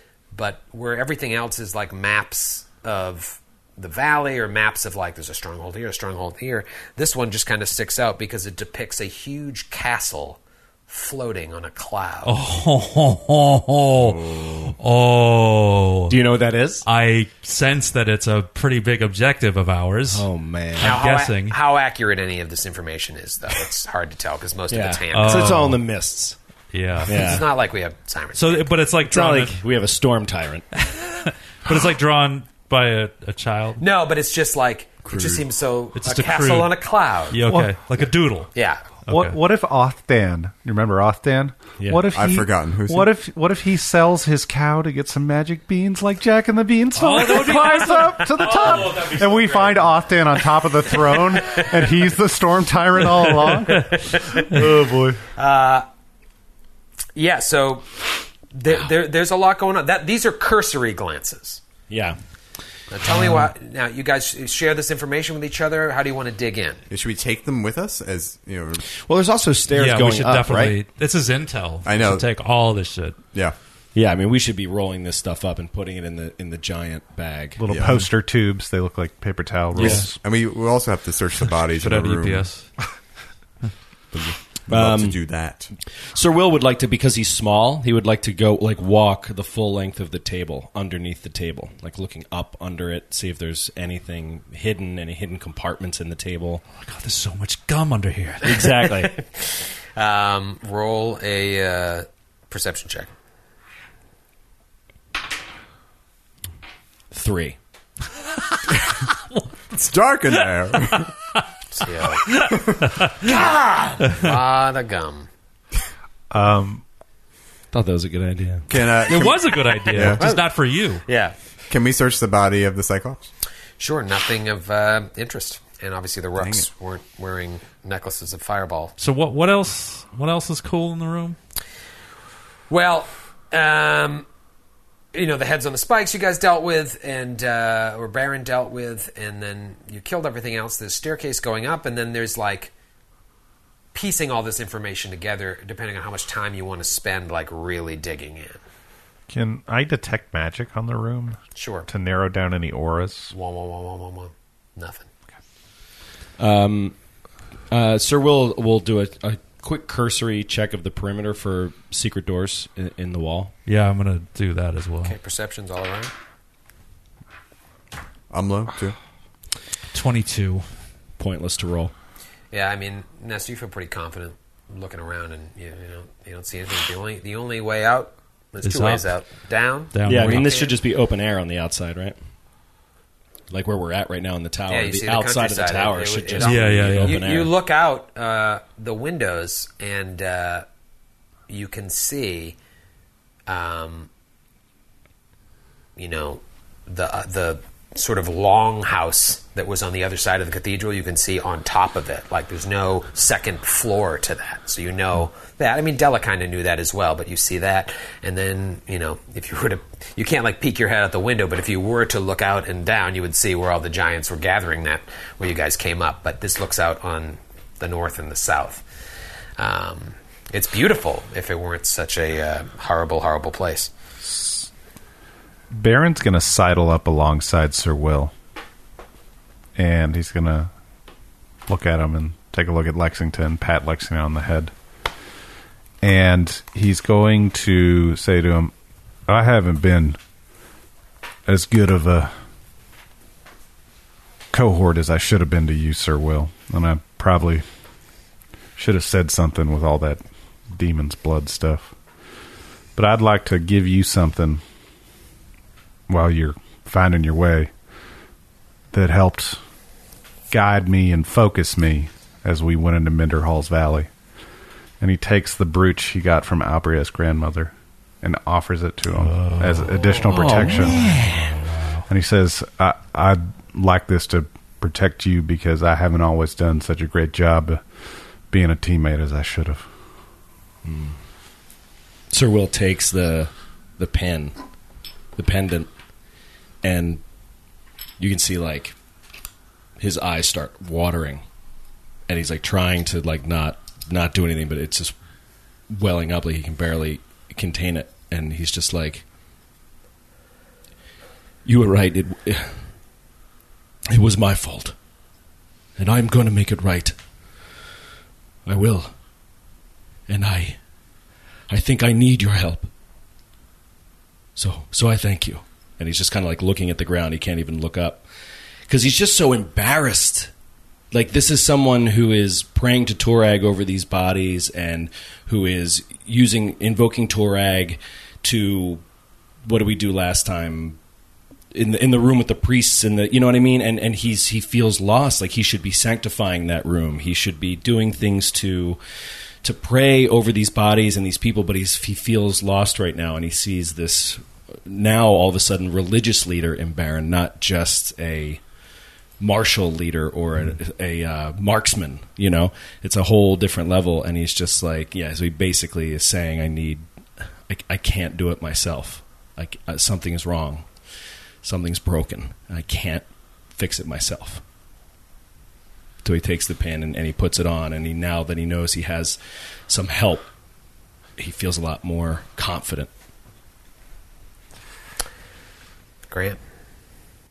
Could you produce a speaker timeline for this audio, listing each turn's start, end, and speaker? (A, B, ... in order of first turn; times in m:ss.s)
0:00.3-0:12.4 A
0:12.2-0:16.2 B
0:14.0-0:14.8 C
0:16.1-0:16.8 D
0:16.8-0:21.6 B
0:20.1-0:21.0 D
0:20.8-0:25.6 A
0:24.7-0:26.4 D
0:25.1-0:25.8 B
0:26.7-0:27.4 B
0:27.1-0:27.5 D
0:27.1-0:28.7 A
0:28.4-0:29.6 B
0:29.0-0:30.7 D
0:30.8-0:33.8 B
0:33.8-0:37.4 A
0:35.1-0:35.4 C
0:36.0-0:36.8 B
0:37.3-0:38.5 B
0:37.5-0:37.8 E
0:38.6-0:38.8 A
0:39.1-0:39.4 B
0:39.1-0:55.2 E
0:41.8-0:42.1 D
0:42.1-0:43.1 C
0:47.0-0:51.7 B
0:53.9-0:54.6 A
0:55.4-0:55.9 A
0:57.2-0:57.9 A
0:58.5-1:01.6 A
1:01.9-1:02.2 D
1:02.9-1:06.8 A
1:03.1-1:03.5 B
1:06.9-1:08.9 C
1:08.9-1:10.8 D
1:09.7-1:13.2 B
1:11.8-1:12.3 C
1:14.0-1:17.7 D
1:17.6-1:20.2 E
1:17.7-1:18.0 C
1:19.8-1:20.1 B
1:19.8-1:22.5 C
1:21.7-1:22.7 B
1:24.1-1:25.7 C
1:24.7-1:25.2 D
1:26.1-1:36.6 D
1:36.8-1:38.7 B
1:38.4-1:39.1 D
1:39.1-1:43.1 A
1:47.1-1:47.6 D
1:49.7-1:51.2 C
1:51.7-1:52.4 A
1:52.2-1:53.2 B
1:52.6-1:52.9 C
1:53.2-1:55.3 A
1:54.0-1:54.3 B
1:56.3-1:56.8 E
1:57.7-1:58.7 D
1:58.7-2:00.2 C
1:59.0-2:01.0 B
1:59.9-2:00.5 A
2:01.0-2:01.4 A
2:01.7-2:03.3 C
2:03.8-2:08.9 A
2:06.4-2:06.7 C
2:09.0-2:11.4 B
2:12.7-2:14.3 A
2:15.1-2:22.7 A
2:23.9-2:28.6 A
2:29.3-2:33.3 E
2:31.6-2:31.9 A
2:33.3-2:35.1 A
2:36.4-2:37.0 D
2:37.7-2:43.5 D
2:43.7-2:45.2 B
2:45.0-2:46.1 A
2:48.3-2:49.0 C
2:49.9-2:50.7 B
2:51.2-2:51.9 D
2:52.5-3:00.8 A
2:58.6-2:59.1 B
2:59.9-3:00.6 B
3:00.0-3:02.2 D
3:03.5-3:07.5 D
3:04.7-3:10.7 A
3:06.4-3:07.2 B
3:11.5-3:12.6 A
3:13.5-3:14.1 A
3:16.0-3:38.8 A
3:39.6-3:43.9 A
3:44.2-3:44.7 E
3:45.7-3:48.3 E
3:49.8-3:50.7 E
3:51.7-3:54.7 E
3:56.0-3:58.7 E
3:59.3-4:00.2 E
4:01.5-4:02.3 E
4:04.5-4:07.6 E
4:08.8-4:11.9 E
4:13.0-4:14.6 E
4:16.1-4:17.7 E
4:18.9-4:19.6 E
4:20.5-4:24.1 E
4:25.0-4:31.1 E
4:29.2-4:32.1 B
4:30.4-4:31.4 D
4:32.1-4:37.8 E
4:38.5-4:39.9 E
4:40.8-4:41.2 D
4:42.3-4:44.6 D
4:45.4-4:45.9 D
4:46.8-4:47.2 D
4:48.2-4:49.0 D
4:50.0-4:51.4 D
4:52.3-4:55.1 D
4:55.9-4:59.2 D
5:01.6-5:02.8 D
5:04.1-5:05.0 D
5:06.0-5:07.2 D
5:08.7-5:09.1 D
5:10.3-5:10.8 D
5:11.7-5:12.9 D
5:14.6-5:18.2 D
5:18.9-5:20.5 D
5:21.1-5:29.0 D
5:29.6-5:31.0 D
5:31.7-5:39.0 D
5:39.6-5:48.6 D
5:49.4-5:57.0 D
5:57.7-6:01.1 D
6:01.6-6:04.6 D
6:06.2-6:10.5 D
6:11.4-6:13.1 D
6:16.3-6:16.6 A